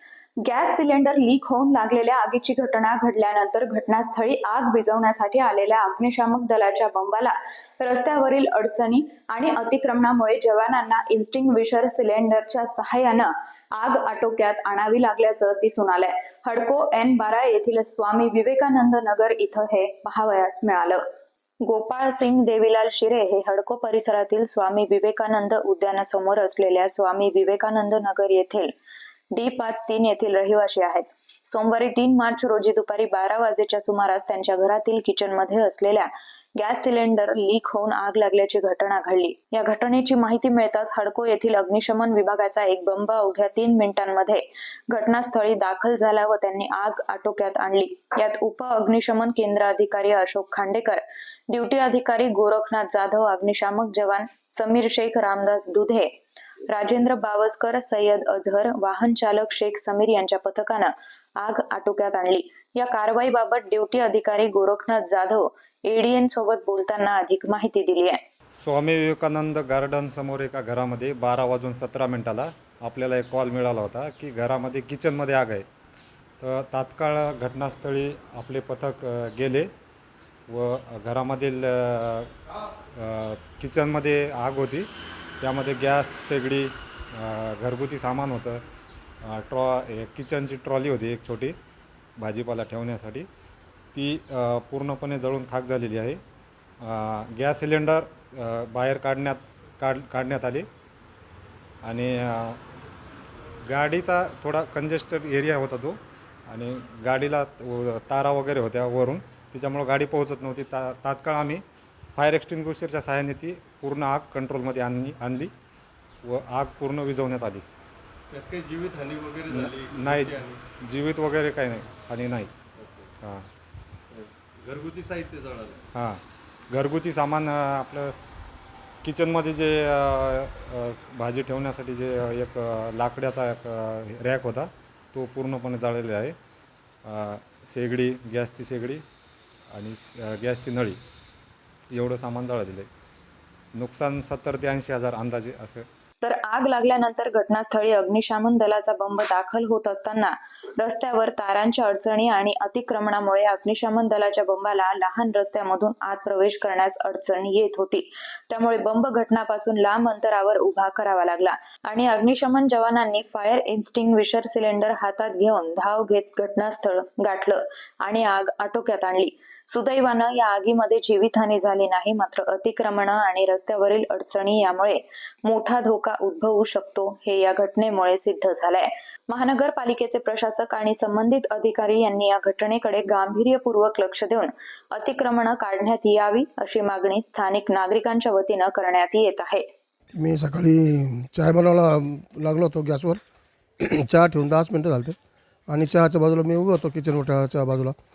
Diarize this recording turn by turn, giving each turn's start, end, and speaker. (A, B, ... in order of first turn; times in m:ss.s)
0:00.4-0:21.0 A
0:21.6-0:28.7 A
0:29.3-0:56.1 A
0:56.7-1:08.2 A
1:08.5-1:15.7 B
1:16.4-1:19.7 B
1:20.5-1:22.3 B
1:23.0-1:24.9 B
1:25.4-1:28.6 B
1:29.2-1:31.6 B
1:32.2-1:33.3 B
1:33.9-1:36.2 B
1:36.8-1:40.6 B
1:41.8-1:42.6 B
1:43.7-1:46.0 B
1:46.5-1:51.6 B
1:52.2-1:55.5 B
1:56.2-1:57.6 B
1:58.3-2:00.6 C
1:59.5-2:02.5 B
2:02.8-2:03.1 C
2:03.2-2:03.5 B
2:04.1-2:05.8 C
2:06.0-2:06.2 B
2:06.7-2:08.1 B
2:09.0-2:16.4 B
2:17.0-2:19.0 B
2:19.7-2:21.0 B
2:21.9-2:22.9 B
2:23.8-2:25.8 B
2:26.2-3:09.6 A
3:10.1-3:13.2 D
3:13.8-3:15.2 D
3:15.7-3:18.0 D